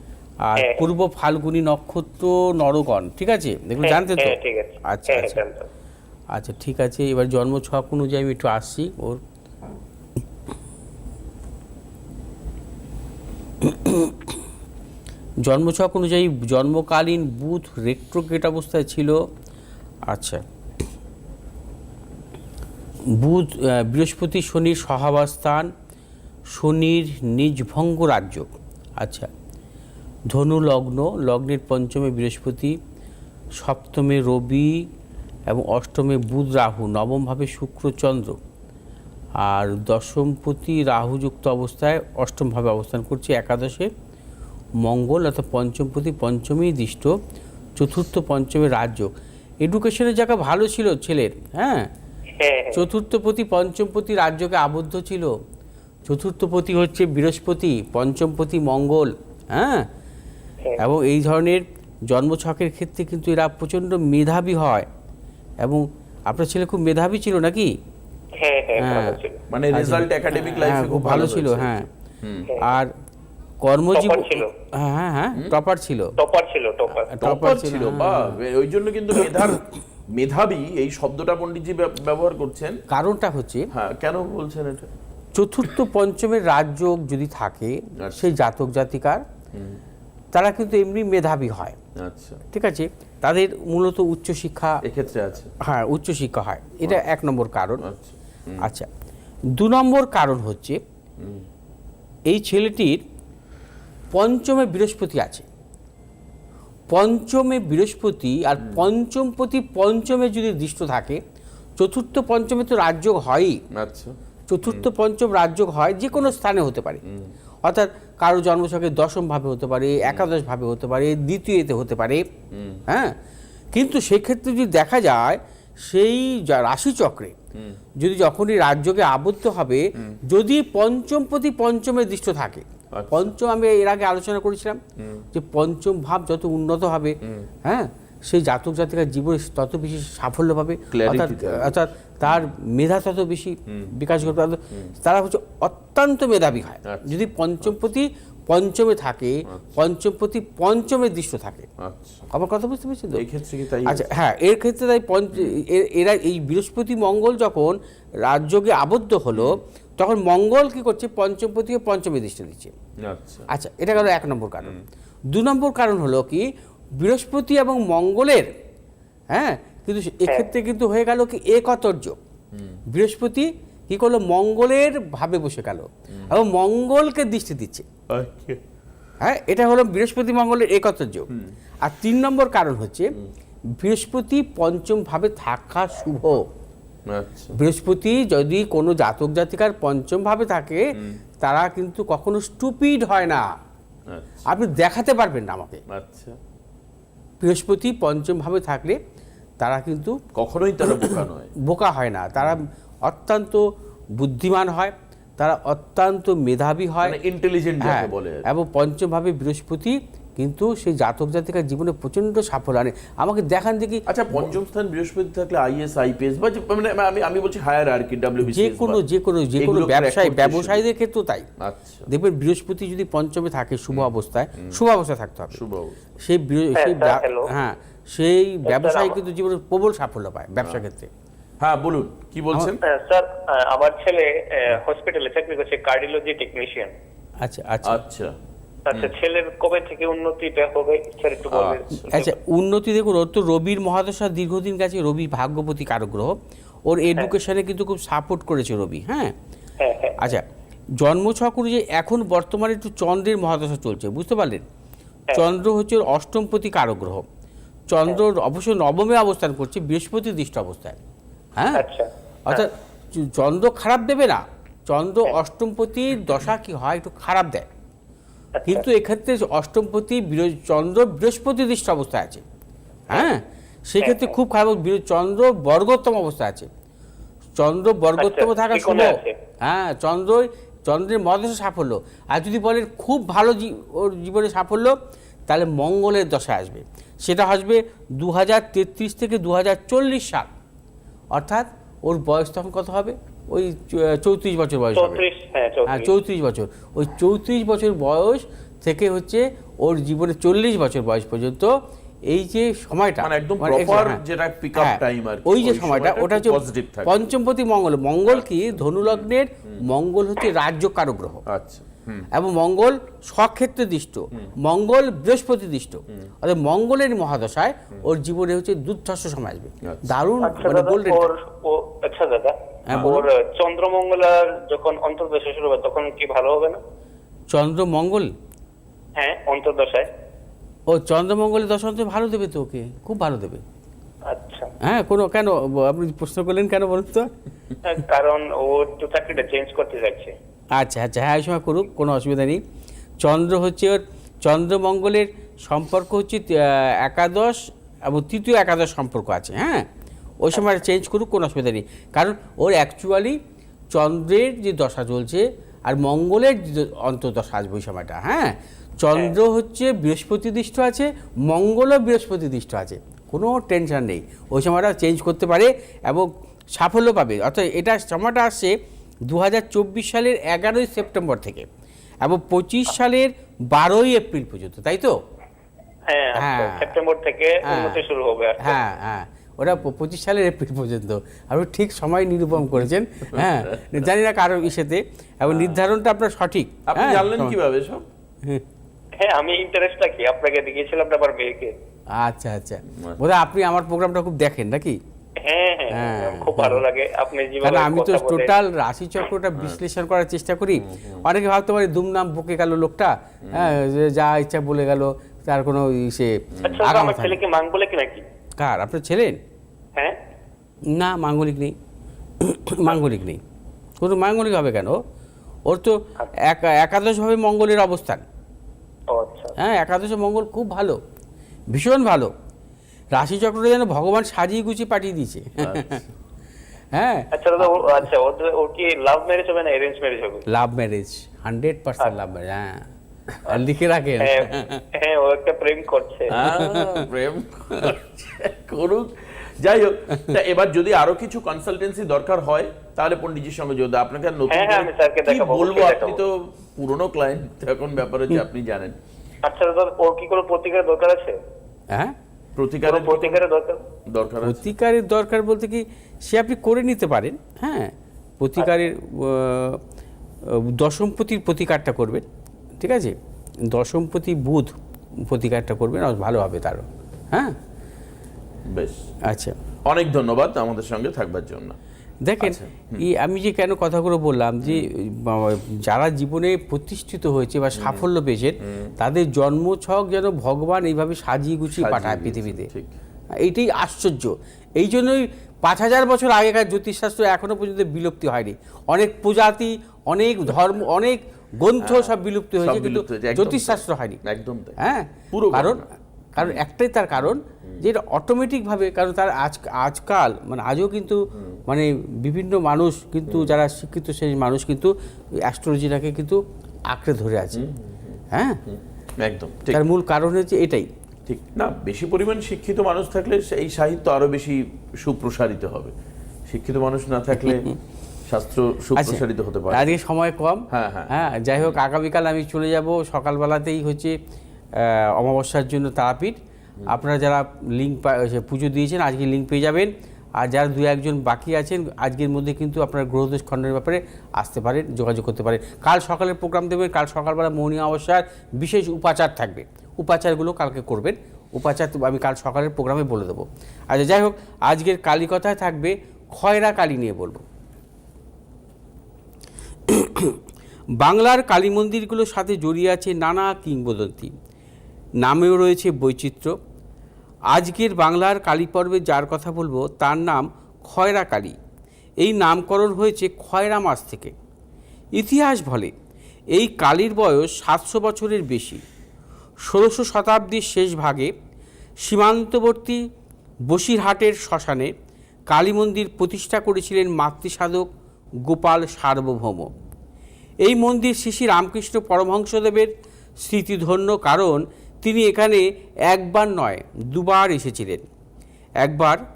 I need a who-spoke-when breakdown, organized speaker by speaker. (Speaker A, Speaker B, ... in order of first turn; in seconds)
Speaker A: 0.4-5.4, 6.3-9.2, 13.6-14.4, 15.4-19.2, 20.1-20.4, 23.1-25.7, 26.5-29.3, 30.3-32.8, 33.6-34.9, 35.5-38.4, 39.4-43.9, 44.8-47.1, 47.8-49.1, 49.6-51.9, 52.7-55.3, 56.1-59.9, 60.8-64.9, 65.6-67.7, 68.8-69.2, 69.7-71.9, 72.6-72.9, 73.6-76.1, 76.9-78.3, 82.9-83.7, 85.3-89.2, 90.3-91.8, 92.5-94.8, 95.6-97.8, 98.6-98.9, 99.5-100.8, 102.3-103.0, 104.1-105.5, 106.9-111.2, 111.8-113.6, 114.5-117.0, 117.6-122.2, 122.9-123.1, 123.7-127.3, 128.0-134.8, 135.3-151.7, 152.3-153.2, 153.8-162.7, 163.5-164.8, 165.3-166.4, 167.0-168.5, 169.3-172.2, 172.9-177.8, 179.2-181.3, 181.8-183.1, 183.8-186.4, 187.5-193.4, 194.5-195.8, 197.4-199.0, 199.6-200.2, 200.8-203.6, 204.2-207.2, 207.8-214.4, 218.4-221.5, 222.1-225.6, 226.2-231.1, 237.4-238.0, 242.1-246.4, 246.9-249.3, 250.2-250.4, 251.0-254.6, 255.3-257.2, 257.9-261.0, 261.6-261.8, 262.5-267.7, 268.7-272.4, 273.1-276.7, 277.6-284.9, 285.5-290.5, 291.3-295.2, 295.9-301.8, 302.3-304.2, 304.7-311.4, 312.3-321.3, 322.9-323.2, 327.5-328.3, 330.9-333.6, 334.8-337.3, 340.7-342.6, 343.2-349.9, 350.4-353.4, 353.9-368.7, 369.3-371.6, 372.2-375.2, 376.4-376.9, 377.6-378.0, 378.6-387.6, 392.2-395.0, 395.9-396.8, 397.6-407.4, 408.6-409.4, 410.9-411.7, 412.4-413.4, 414.0-415.0, 415.7-418.2, 419.6-421.0, 421.7-422.3, 423.1-426.0, 426.9-428.0, 430.5-432.9, 433.4-434.8, 436.4-437.1, 451.9-452.1, 454.4-459.8, 460.4-462.2, 462.8-463.1, 463.7-464.7, 465.2-467.6, 469.3-469.5, 472.2-482.7, 483.4-494.2, 494.8-495.8, 496.3-507.6, 508.3-508.6, 509.7-510.9, 519.0-524.1, 524.8-547.4, 549.9-550.4, 551.0-554.3, 555.2-556.5, 557.5-561.6, 562.2-564.3, 565.1-565.9, 566.5-568.8, 569.6-571.3, 572.0-573.0, 573.7-574.9, 575.5-577.9, 578.4-579.7, 580.6-582.9, 583.4-588.0, 588.8-589.2
Speaker B: 0.6-0.9, 3.8-5.7, 52.4-52.8, 68.4-69.4, 73.9-74.5, 76.2-77.2, 226.8-227.5, 228.6-229.2, 232.8-236.9, 238.8-242.4, 249.8-250.2, 261.7-262.7, 268.5-268.8, 274.0-274.3, 278.2-279.4, 294.9-296.1, 320.4-326.8, 329.2-330.1, 334.2-334.7, 337.8-340.3, 376.1-378.8, 389.2-391.7, 395.4-398.5, 406.6-408.2, 419.1-419.6, 427.3-430.4, 434.2-436.4, 444.5-446.2, 449.4-451.4, 452.9-453.8
Speaker C: 69.5-72.5, 77.2-82.8, 83.7-84.9, 88.0-88.3, 89.5-89.8, 92.0-92.4, 94.8-95.5, 97.8-98.6, 101.2-101.5, 108.6-108.9, 113.7-114.9, 117.0-117.3, 122.5-122.8, 132.9-133.3, 135.0-135.2, 137.2-137.5, 140.9-142.5, 143.7-144.9, 146.8-147.7, 151.8-152.2, 153.1-154.1, 159.3-159.6, 163.0-164.1, 172.5-172.8, 176.1-176.4, 178.1-178.6, 187.1-187.5, 194.1-194.4, 195.9-196.4, 200.3-201.5, 207.0-208.4, 214.1-219.0, 219.6-220.8, 221.6-222.1, 223.9-224.8, 225.5-226.0, 231.6-232.8, 237.8-238.3, 241.5-242.1, 303.2-307.2, 308.3-309.8, 311.5-312.3, 319.8-320.1, 322.9-323.2, 383.3-384.1, 385.5-385.8, 386.9-388.1, 392.9-393.2, 399.6-399.8, 400.7-401.2, 403.4-403.8, 406.5-406.8, 425.6-426.1, 436.3-448.9, 452.6-453.4, 454.1-454.7, 468.7-469.0, 469.9-471.8, 472.4-473.1, 474.6-474.9, 477.8-478.1, 478.6-478.9, 481.7-482.9, 491.8-494.8, 495.3-495.8, 496.4-496.6, 497.1-497.8, 501.3-501.6, 503.3-503.6, 507.5-509.8, 511.2-515.9, 516.5-517.7, 518.3-520.0, 520.7-521.8